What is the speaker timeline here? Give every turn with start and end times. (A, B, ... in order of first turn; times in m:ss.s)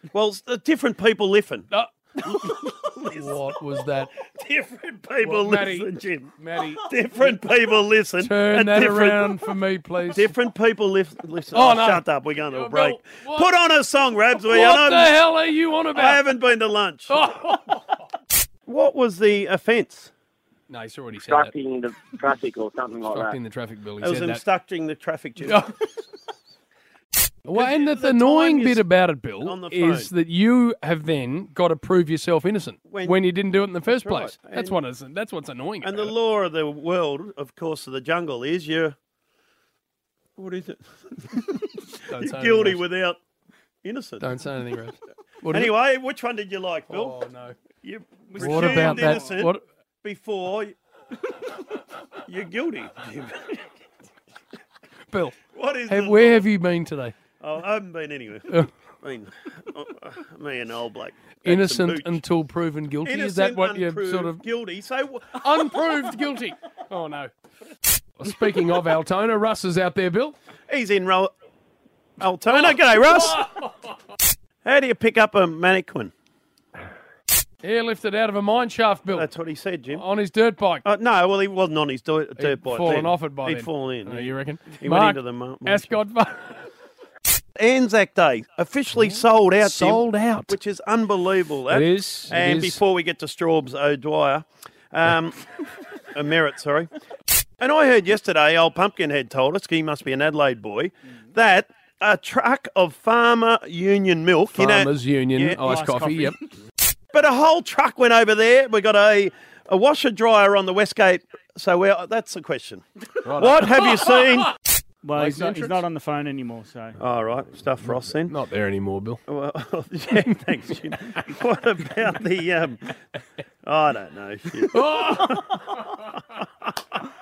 0:00.1-0:01.7 A
0:01.7-0:02.4 B
0:02.2-0:03.4 A
0:03.1-0:04.1 B
0:04.2-0:09.4 A
0:05.2-0:07.3 B
0:08.2-0:10.3 B
0:10.1-0:15.2 A
0:11.5-0:13.5 B
0:14.4-0:16.2 B
0:15.9-0:17.2 A
0:17.1-0:17.8 B
0:18.7-0:20.1 A
0:20.7-0:21.5 B
0:21.2-0:23.4 C
0:23.1-0:24.4 B
0:24.0-0:25.7 A
0:25.4-0:25.7 B
0:27.4-0:36.1 B
0:27.5-0:28.9 A
0:29.4-0:30.1 A
0:32.8-0:33.2 A
0:33.8-0:34.8 A
0:35.8-0:39.0 A
0:40.4-0:43.2 A
0:42.1-0:42.8 B
0:43.8-0:44.3 A
0:44.2-0:45.7 B
0:45.5-0:47.2 A
0:46.9-0:47.6 B
0:47.8-0:50.8 A
0:48.3-0:49.3 D
0:48.4-0:49.6 B
0:52.2-0:53.6 A
0:55.1-0:57.1 B
0:55.5-0:56.5 A
0:57.4-1:02.2 A
1:01.4-1:04.4 B
1:03.0-1:06.0 A
1:05.3-1:07.3 B
1:08.2-1:10.4 B
1:10.7-1:11.3 A
1:12.2-1:13.5 A
1:12.6-1:13.7 B
1:14.6-1:16.1 A
1:17.6-1:19.3 B
1:19.1-1:20.0 A
1:19.9-1:20.8 B
1:20.8-1:26.0 A
1:22.4-1:26.6 B
1:27.6-1:35.4 A
1:29.6-1:30.5 B
1:31.7-1:32.8 B
1:36.1-1:36.9 A
1:37.6-1:45.9 A
1:44.5-1:46.4 B
1:45.6-1:46.4 D
1:47.1-1:54.5 A
1:53.2-1:54.0 B
1:55.0-1:57.0 D
1:55.2-1:55.8 B
1:57.0-1:58.4 A
1:57.9-1:59.2 B
1:59.3-2:02.9 A
2:03.6-2:06.0 A
2:04.7-2:05.8 B